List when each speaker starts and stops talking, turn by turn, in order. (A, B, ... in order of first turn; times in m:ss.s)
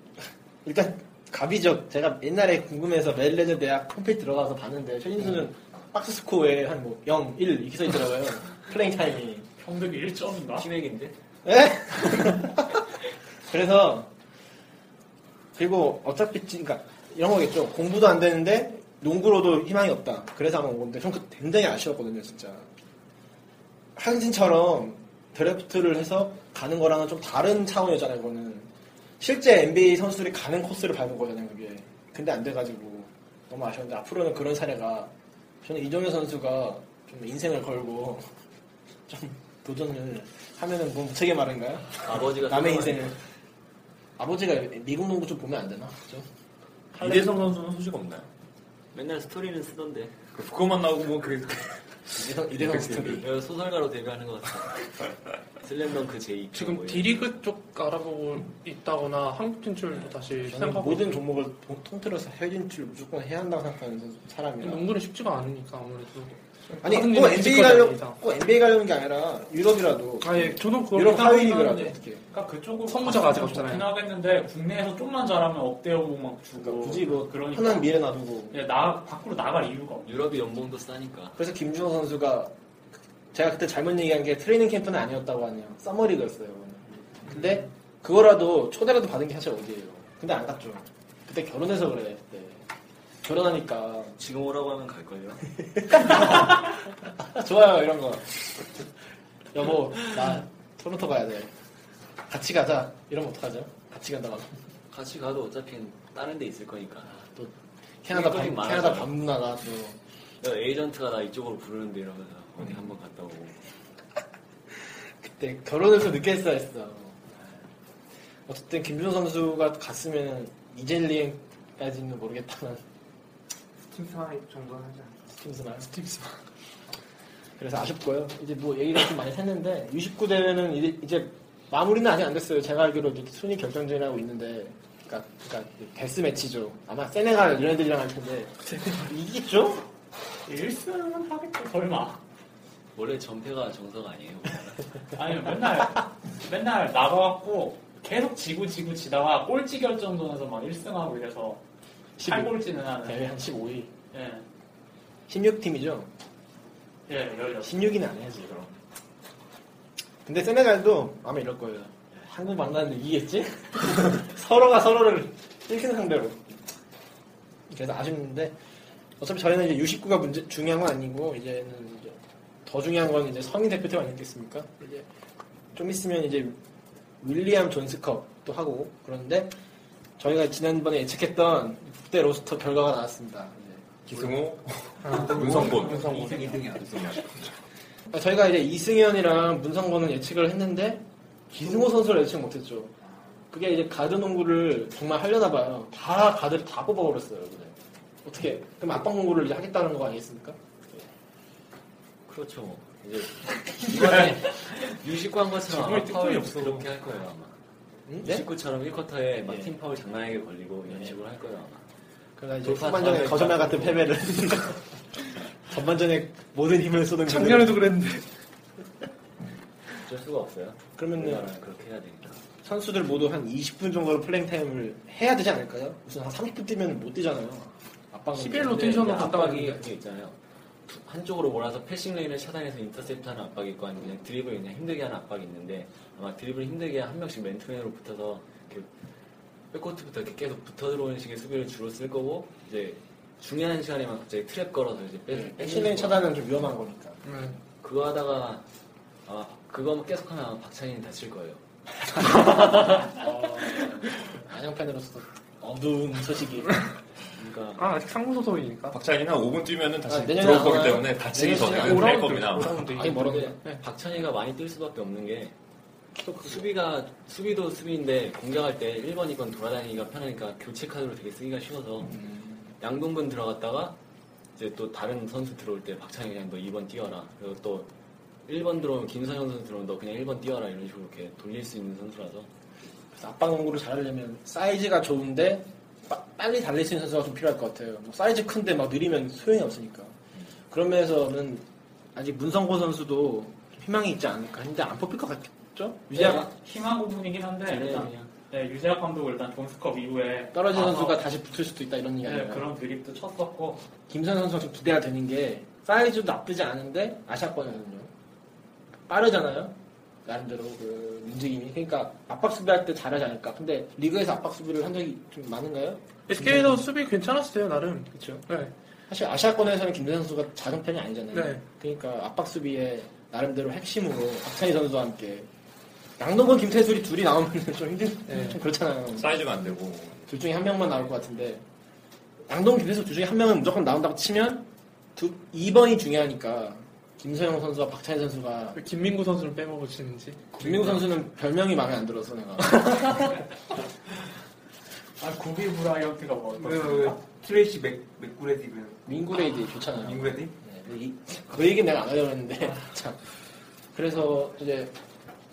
0:00.6-0:09.5 A
0:09.6-0:10.6 B
0:10.5-0:11.2 C
0:11.4-0:12.8 A
0:13.5-0:14.1 A
0:15.6-0:22.7 A
0:24.0-0:38.2 A
0:39.1-0:43.2 A
0:42.0-0:43.2 C
0:44.2-0:46.3 A
0:46.9-0:47.4 A
0:47.0-0:48.3 D
0:48.9-0:50.1 C
0:50.3-0:51.8 D
0:52.1-0:53.3 A
0:52.5-0:53.2 D
0:53.1-0:54.9 C
0:55.6-0:57.2 C
0:56.5-1:01.2 E
1:00.4-1:04.9 A
1:04.6-1:08.2 E
1:06.8-1:12.2 A
1:10.2-1:12.0 E
1:12.3-1:17.9 B
1:12.9-1:13.9 E
1:16.6-1:18.6 A
1:18.5-1:20.1 B
1:20.0-1:21.4 C
1:21.4-1:22.5 A
1:23.3-1:32.7 A
1:33.2-1:34.2 A
1:34.2-1:35.4 C
1:35.8-1:38.4 A
1:39.5-1:41.5 A
1:42.3-1:44.5 A
1:44.9-1:47.1 C
1:47.1-1:50.0 A
1:48.1-1:49.1 C
1:50.4-1:53.6 C
1:55.2-1:57.3 A
1:58.5-2:02.8 A
2:03.9-2:05.2 F
2:05.4-2:06.0 A
2:07.6-2:19.9 A
2:20.5-2:22.2 B
2:23.0-2:25.0 C
2:25.2-2:31.6 B
2:32.2-2:33.9 A
2:32.3-2:33.2 B
2:34.1-2:34.4 B
2:35.3-2:36.1 A
2:37.1-2:37.7 B
2:37.6-2:38.8 A
2:40.2-2:46.5 A
2:47.7-2:48.6 A
2:49.2-2:55.1 A
2:55.7-2:56.6 A
2:57.2-2:59.6 A
3:00.2-3:03.9 A
3:04.1-3:07.4 D
3:05.0-3:07.4 F
3:08.1-3:12.9 A
3:13.5-3:20.6 A
3:22.3-3:27.6 C
3:25.7-3:26.9 E
3:28.1-3:28.5 A
3:28.2-3:31.8 C
3:29.5-3:29.7 A
3:30.9-3:31.2 A
3:32.4-3:34.8 A
3:32.6-3:34.2 C
3:35.7-3:38.0 A
3:37.3-3:38.2 E
3:40.0-3:42.4 C
3:41.0-3:41.5 A
3:42.6-3:49.1 A
3:48.4-3:49.9 E
3:48.6-3:58.9 C
3:59.7-4:06.3 C
4:05.3-4:07.2 A
4:07.3-4:07.6 E
4:07.8-4:08.6 C
4:09.3-4:11.6 C
4:12.3-4:16.8 A
4:17.4-4:17.9 C
4:17.8-4:19.0 E
4:18.9-4:22.8 D
4:20.1-4:23.8 A
4:21.4-4:23.6 E
4:23.2-4:25.5 C
4:26.2-4:26.7 A
4:26.4-4:32.2 C
4:32.1-4:32.7 A
4:32.8-4:34.0 C
4:34.6-4:37.9 C
4:38.5-4:42.5 C
4:43.1-4:50.2 A
4:50.7-4:56.5 A
4:56.1-4:56.5 C
4:56.3-5:01.2 B
4:57.7-4:58.3 C
5:00.5-5:02.7 A
5:02.2-5:03.8 B
5:04.1-5:08.1 A
5:09.1-5:16.9 A
5:16.3-5:18.7 E
5:18.1-5:18.4 A
5:19.1-5:25.5 A
5:21.3-5:21.6 E
5:26.2-5:29.4 A
5:28.3-5:28.6 E
5:29.2-5:30.3 D
5:30.3-5:31.6 A
5:32.5-5:38.8 A
5:38.8-5:40.7 E
5:40.6-5:43.4 A
5:45.2-5:47.2 B
5:46.6-5:49.3 F
5:49.1-5:53.2 A
5:49.9-5:50.5 F
5:53.9-5:54.9 A